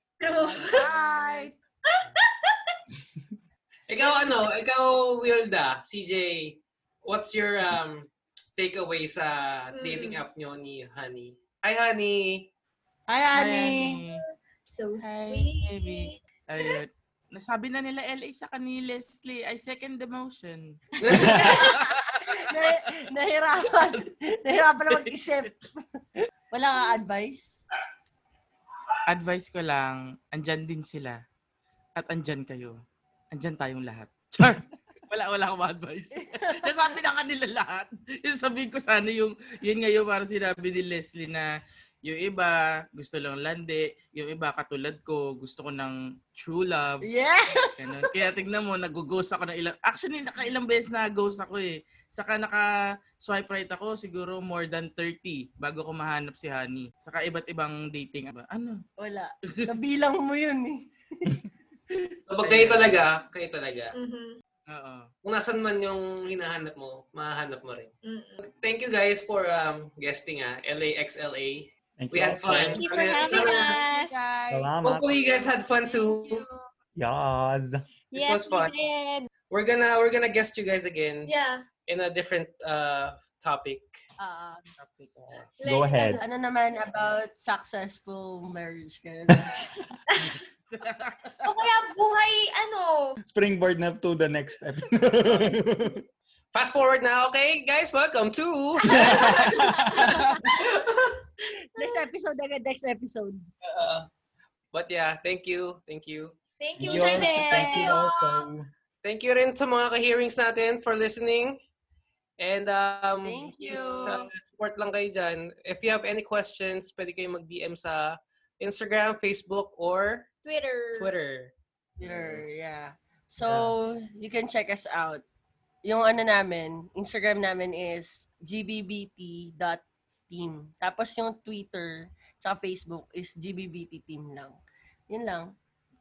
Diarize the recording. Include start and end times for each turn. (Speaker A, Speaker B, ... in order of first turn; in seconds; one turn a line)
Speaker A: 0.2-0.9
Speaker B: 0.6-1.6
Speaker C: 0.9-1.4
Speaker A: 1.9-2.8
Speaker D: 3.9-12.5
Speaker A: 9.7-10.2
Speaker B: 13.1-14.0
Speaker C: 13.3-14.2
Speaker A: 14.7-16.7
Speaker C: 15.0-22.7
Speaker D: 21.0-21.7
Speaker A: 21.2-21.7
Speaker B: 21.6-25.9
Speaker B: 26.5-27.6
Speaker C: 29.1-31.2
Speaker C: 32.0-32.8
Speaker C: 33.3-41.5
Speaker B: 36.4-36.7
Speaker C: 42.0-47.0
Speaker B: 47.0-48.1
Speaker C: 47.7-58.8
Speaker B: 59.0-62.1
Speaker D: 62.3-63.9
Speaker C: 62.4-63.0
Speaker A: 63.9-64.3
Speaker C: 64.7-65.1
Speaker D: 65.2-73.8
Speaker A: 68.0-68.4
Speaker E: 72.0-72.8
Speaker B: 72.5-76.7
Speaker F: 72.8-74.1
Speaker E: 74.5-75.0
Speaker D: 74.8-76.5
Speaker E: 77.0-77.8
Speaker F: 78.1-79.3
Speaker D: 78.1-78.7
Speaker D: 79.5-81.3
Speaker A: 81.3-81.7
Speaker D: 81.9-83.9
Speaker B: 84.2-84.7
Speaker C: 84.8-85.5
Speaker A: 85.6-86.2
Speaker E: 85.7-86.2
Speaker B: 86.2-89.6
Speaker A: 90.1-90.4
Speaker C: 90.7-91.4
Speaker A: 91.5-93.2
Speaker E: 93.3-96.0
Speaker D: 96.5-99.5
Speaker E: 98.8-100.2
Speaker A: 98.9-100.8
Speaker D: 100.5-101.1
Speaker A: 101.7-102.0
Speaker B: 101.8-103.5
Speaker D: 103.6-104.1
Speaker D: 104.7-106.3
Speaker A: 106.6-108.4
Speaker E: 106.8-108.7
Speaker B: 106.8-108.0
Speaker D: 109.0-111.6
Speaker D: 112.4-120.3
Speaker B: 113.2-114.3
Speaker A: 120.5-121.1
Speaker D: 121.0-121.5
Speaker B: 122.0-125.2
Speaker E: 123.4-123.7
Speaker B: 125.8-134.6
Speaker B: 135.1-135.5